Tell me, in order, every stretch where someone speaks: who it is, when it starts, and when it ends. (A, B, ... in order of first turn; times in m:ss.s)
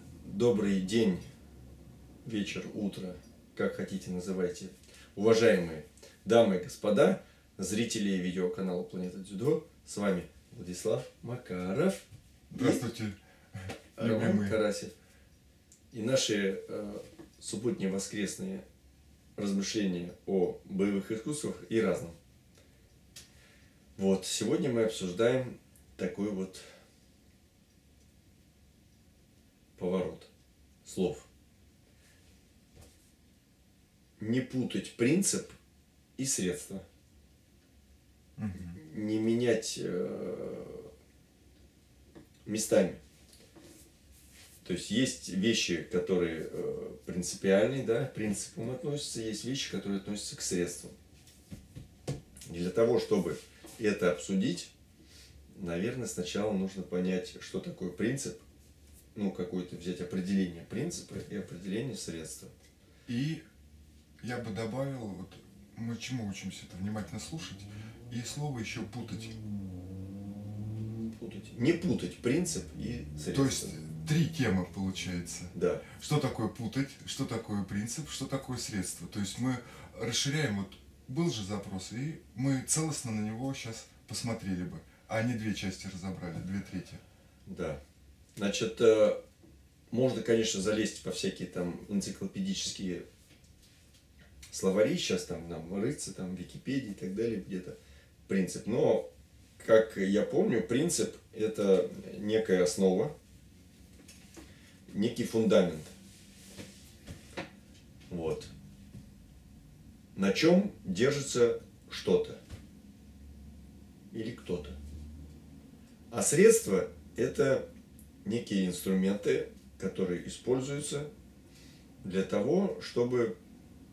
0:00.2-0:01.2 A
0:02.2-0:12.0 A
0:12.5-0:14.6 B
0:12.5-0:12.8 A
0:14.0-0:14.9 A
0:15.9-0:18.6 A
0:19.4-0:22.2 A
0:24.0-0:26.6 A
0:29.8-0:30.3 A
0:30.8-0:31.2 A
0:34.2-0:35.6 A
0:36.2-0:36.8 A
0:38.4-0:38.8 B
0:38.7-0:40.9 A
0:42.4-0:43.0 A
0:44.6-0:50.9 A
0:52.5-0:54.7 A
0:55.5-0:58.4 A
0:59.1-1:02.5 A
1:03.1-1:03.4 B
1:04.2-1:09.4 B
1:11.2-1:13.8 A
1:13.3-1:27.0 B
1:15.5-1:15.8 A
1:27.4-1:27.8 A
1:28.4-1:29.2 A
1:29.9-1:33.0 A
1:34.5-1:37.8 A
1:38.3-1:39.1 A
1:39.6-1:43.1 A
1:44.9-1:45.9 A
1:48.1-1:48.5 A
1:50.1-1:52.4 A
1:54.1-1:54.8 A
1:56.1-1:57.6 A
1:58.2-2:01.1 A
2:02.0-2:03.3 A